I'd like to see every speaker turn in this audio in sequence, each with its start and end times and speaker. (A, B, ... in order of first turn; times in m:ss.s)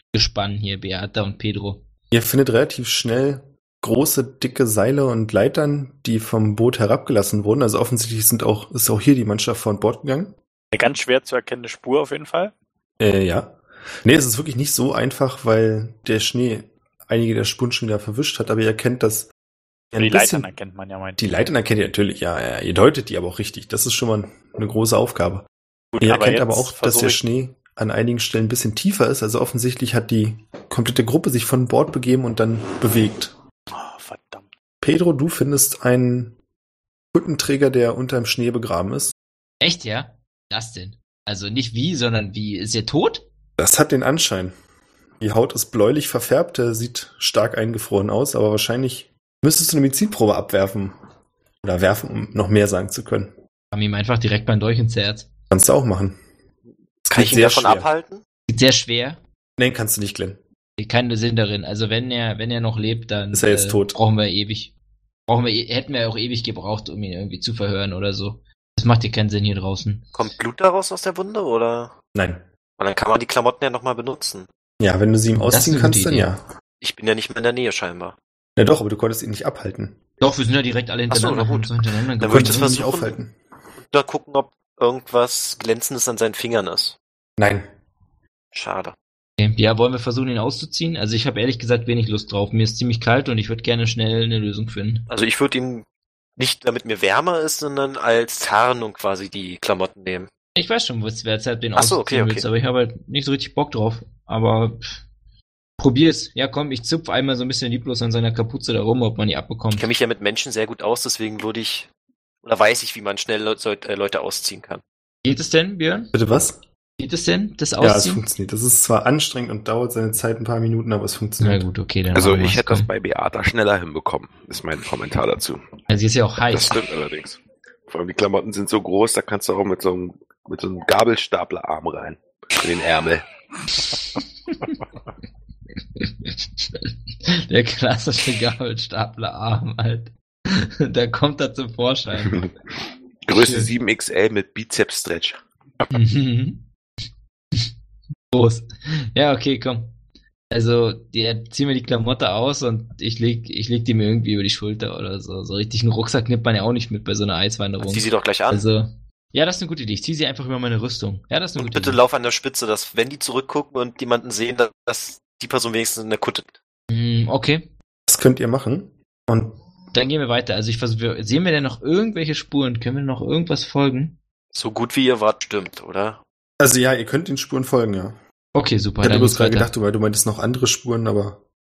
0:00.1-0:01.8 A
0:02.1-0:10.4 B
0:10.7-0:12.5 C
0:13.0-0:19.3 B
0:19.9-0:20.5 B
0:20.0-0:21.3 C
0:21.2-0:25.5 B
0:25.9-0:27.2 C
0:26.0-0:33.4 B
0:33.7-0:34.5 C
0:34.8-0:36.4 B
0:37.1-0:39.2 B
0:39.6-0:43.3 A
0:43.6-0:44.5 B
0:45.2-0:51.0 B
0:51.6-0:53.3 B
0:53.7-0:55.3 A
0:55.5-0:56.2 B
0:57.0-0:57.9 B
0:57.1-0:58.2 D
0:58.5-0:59.2 A
0:59.6-1:00.4 B
1:00.8-1:04.7 A
1:03.3-1:04.0 B
1:05.3-1:10.1 A
1:10.2-1:12.0 D
1:12.1-1:12.4 B
1:12.8-1:14.5 D
1:14.8-1:16.4 B
1:15.4-1:16.3 A
1:16.8-1:18.2 D
1:18.6-1:20.0 B
1:20.2-1:22.9 A
1:21.1-1:23.1 D
1:22.3-1:23.4 B
1:23.9-1:27.0 D
1:27.4-1:27.7 B
1:28.5-1:29.0 D
1:29.4-1:35.1 A
1:35.1-1:35.9 D
1:36.4-1:40.3 D
1:40.6-1:45.1 A
1:41.8-1:42.5 D
1:45.8-1:49.9 A
1:49.7-1:51.9 D
1:52.4-1:54.8 D
1:55.2-1:56.2 A
1:56.1-1:56.6 B
1:57.0-1:58.2 A
1:57.8-2:01.6 B
2:01.4-2:02.9 A
2:02.1-2:05.6 E
2:05.9-2:06.8 A
2:06.5-2:13.3 E
2:14.2-2:14.8 A
2:16.0-2:22.5 A
2:22.2-2:22.5 E
2:23.3-2:25.4 E
2:23.3-2:23.7 A
2:25.9-2:26.7 A
2:28.3-2:29.9 A
2:30.5-2:42.0 A
2:37.8-2:38.6 D
2:41.6-2:46.6 D
2:46.9-2:47.7 A
2:48.1-2:49.6 B
2:49.9-2:54.2 A
2:54.5-2:56.2 D
2:56.6-2:58.2 B
2:58.6-2:59.7 A
2:59.0-3:01.4 B